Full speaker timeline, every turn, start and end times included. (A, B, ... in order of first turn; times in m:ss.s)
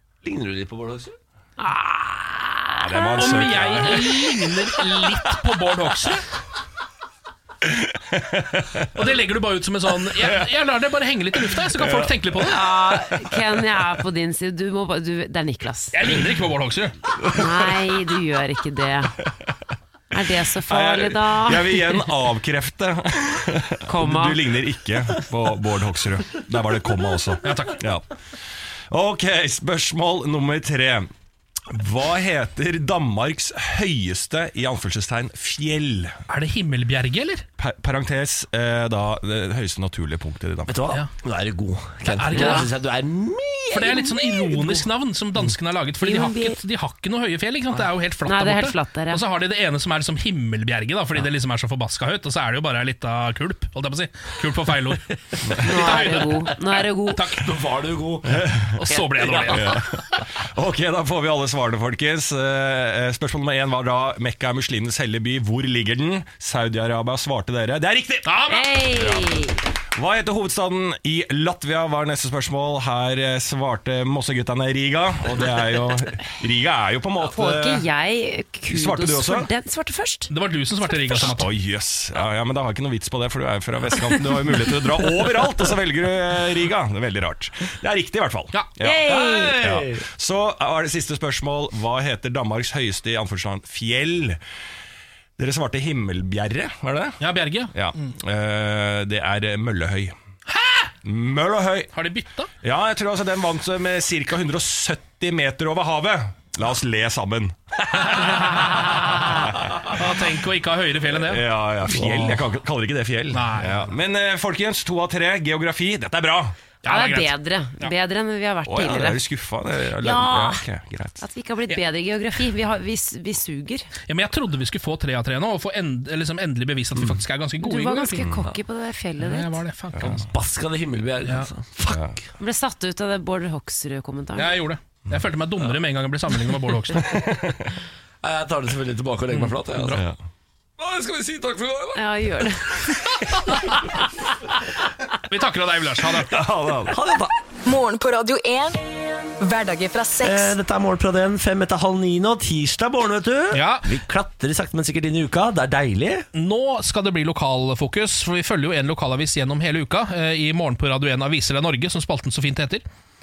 0:00.2-0:01.2 A
0:01.6-0:03.6 B
0:02.8-0:04.2 C
0:03.2-0:06.2 D
0:07.7-0:08.9 C
0:09.0-0:12.6 D
0:10.2-0:10.5 C
0:11.4-0:12.2 C
0:12.4-0:16.0 B
0:15.9-0:16.9 D
0:17.2-0:17.6 C
0:17.3-0:19.1 B
0:20.1-0:22.0 B
0:20.7-0:28.0 C
0:23.8-0:24.4 B
0:27.4-0:27.8 D
0:28.9-0:31.1 C
0:31.7-0:36.2 C
0:36.3-0:37.4 D
0:37.6-0:40.7 C
0:40.7-0:44.8 A
0:42.1-0:42.7 D
0:43.7-0:56.5 D
0:46.0-0:46.6 B
0:48.2-0:49.2 B
0:55.6-0:57.2 B
0:57.1-0:57.4 D
0:57.3-0:59.8 A
0:58.3-0:58.8 C
0:58.8-1:00.0 D
0:59.5-0:59.8 C
1:00.4-1:08.4 C
1:08.2-1:08.8 D
1:08.5-1:09.6 B
1:09.0-1:09.2 C
1:10.0-1:17.8 C
1:17.2-1:20.3 B
1:18.7-1:19.5 C
1:20.3-1:21.5 D
1:20.9-1:21.3 B
1:21.1-1:34.4 C
1:28.8-1:29.6 B
1:29.0-1:30.0 A
1:35.4-1:37.2 C
1:37.2-1:38.1 D
1:37.7-1:40.1 C
1:40.5-1:40.9 D
1:41.0-1:41.9 C
1:41.9-1:42.5 D
1:42.6-1:50.0 C
1:49.8-1:51.4 D
1:51.1-1:56.5 C
1:51.9-1:52.3 A
1:53.3-1:53.9 D
1:56.8-1:57.3 D
1:56.8-1:59.2 B
1:58.6-2:01.2 C
2:00.0-2:00.6 B
2:01.2-2:03.9 B
2:04.1-2:08.2 D
2:07.6-2:09.6 B
2:08.2-2:08.4 C
2:09.2-2:10.3 D
2:10.0-2:10.2 C
2:10.2-2:12.2 A
2:11.9-2:12.2 C
2:12.4-2:14.6 B
2:14.4-2:17.1 D
2:17.0-2:17.7 C
2:18.2-2:20.0 A
2:19.3-2:20.0 D
2:20.8-2:22.0 A
2:21.9-2:22.9 B
2:25.3-2:26.4 D
2:26.2-2:27.0 C
2:26.9-2:27.3 A
2:27.6-2:28.8 E
2:29.4-2:30.5 E
2:30.2-2:36.3 A
2:33.5-2:33.9 D
2:36.3-2:42.8 D